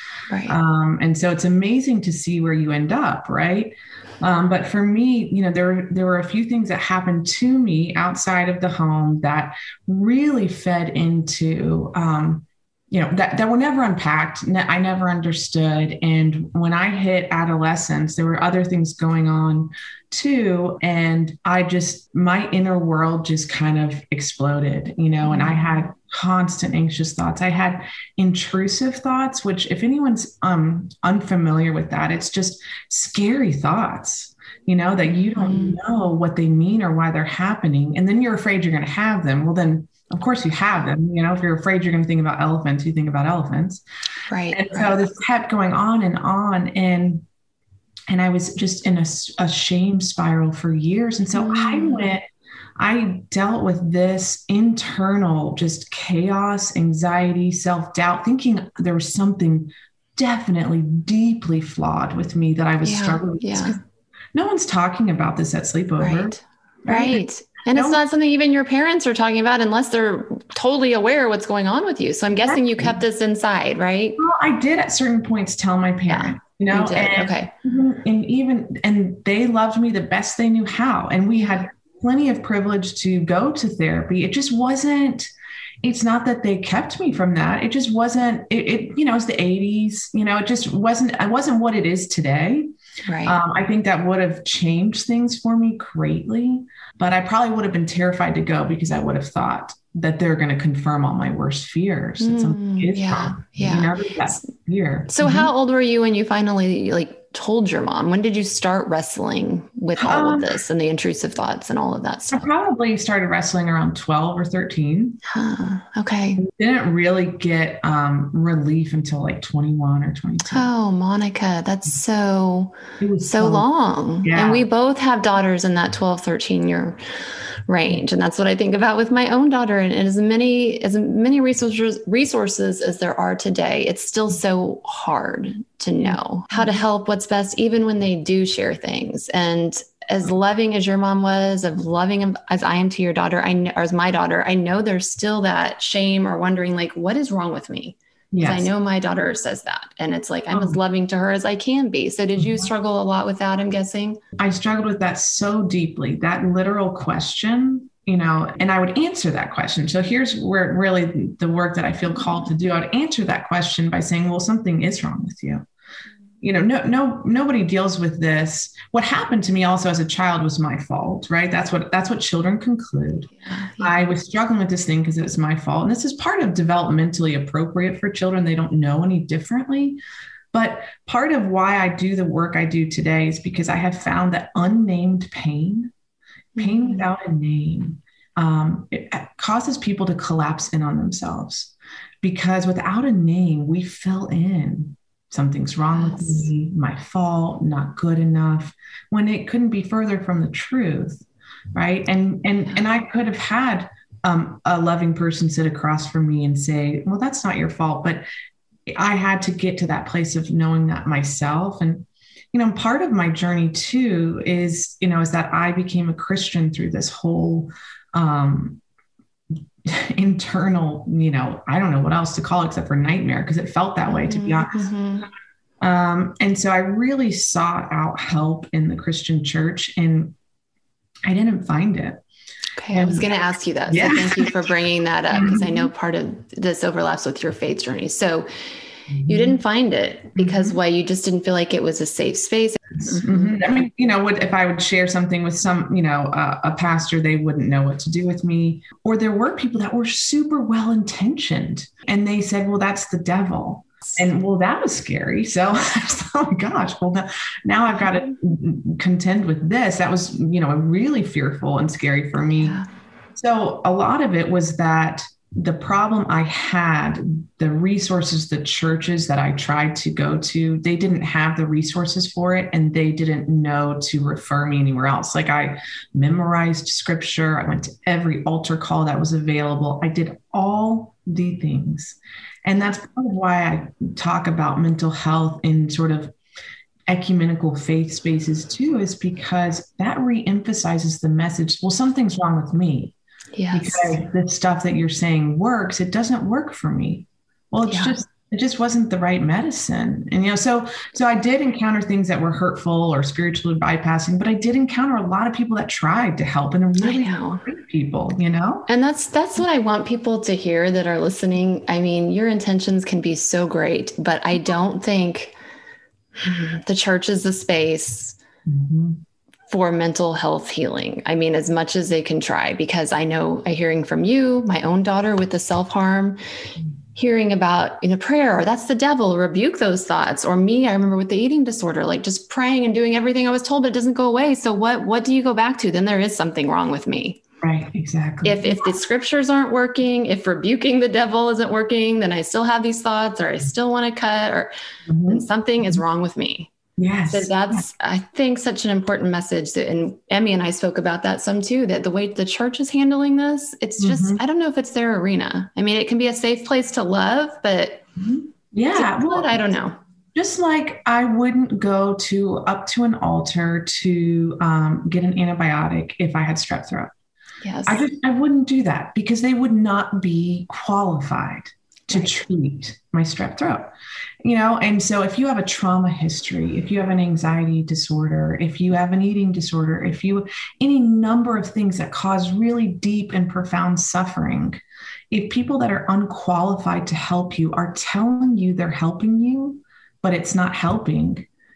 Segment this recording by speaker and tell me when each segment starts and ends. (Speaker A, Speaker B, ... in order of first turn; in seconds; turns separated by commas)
Speaker A: 0.3-0.6, Speaker B: 0.5-43.8, Speaker A: 25.2-25.6, Speaker A: 35.4-35.8, Speaker A: 44.3-45.0, Speaker B: 44.5-47.2, Speaker B: 48.1-52.2, Speaker A: 51.3-52.0, Speaker B: 52.8-63.8, Speaker A: 62.8-63.8, Speaker B: 64.3-68.0, Speaker A: 66.0-74.2, Speaker B: 72.5-73.0, Speaker B: 74.2-85.3, Speaker A: 76.1-77.5, Speaker B: 85.8-92.7, Speaker A: 93.0-93.4, Speaker B: 93.2-105.5, Speaker A: 102.2-104.5, Speaker A: 105.1-112.5, Speaker B: 110.0-110.5, Speaker B: 112.3-115.2, Speaker A: 115.2-116.4, Speaker B: 116.4-120.7, Speaker A: 120.5-127.0, Speaker B: 123.0-123.7, Speaker B: 124.2-124.7, Speaker A: 127.7-154.2, Speaker B: 136.0-136.7, Speaker B: 148.3-148.7, Speaker B: 150.5-150.8, Speaker B: 152.4-152.7, Speaker B: 154.4-165.6, Speaker B: 166.4-180.0, Speaker A: 173.4-173.9, Speaker B: 180.5-185.9, Speaker A: 186.6-187.1, Speaker B: 186.6-208.2, Speaker A: 195.9-196.5, Speaker B: 208.9-218.8, Speaker B: 219.8-224.9, Speaker A: 224.1-225.3, Speaker B: 225.8-230.3, Speaker B: 231.3-232.2, Speaker A: 232.8-238.5, Speaker B: 232.9-233.3, Speaker B: 233.9-234.5, Speaker B: 235.3-235.9, Speaker B: 239.1-239.6, Speaker A: 239.3-243.6, Speaker B: 240.4-240.8, Speaker B: 243.0-262.8, Speaker A: 262.4-262.9, Speaker B: 263.4-286.3, Speaker B: 287.1-293.1, Speaker A: 293.6-294.2, Speaker B: 293.7-308.9, Speaker A: 297.9-298.2, Speaker A: 307.0-307.6, Speaker A: 308.9-315.6, Speaker A: 316.4-318.4, Speaker B: 318.6-319.2, Speaker A: 319.7-326.4, Speaker A: 327.1-337.4, Speaker B: 337.6-338.8, Speaker A: 338.4-344.7, Speaker B: 345.1-346.0, Speaker A: 345.3-346.7, Speaker B: 347.0-347.8, Speaker A: 347.3-358.0, Speaker B: 354.0-354.4, Speaker B: 358.2-359.6, Speaker A: 358.9-359.9, Speaker B: 360.4-367.1, Speaker A: 367.6-368.0, Speaker B: 367.9-373.9, Speaker B: 374.4-391.5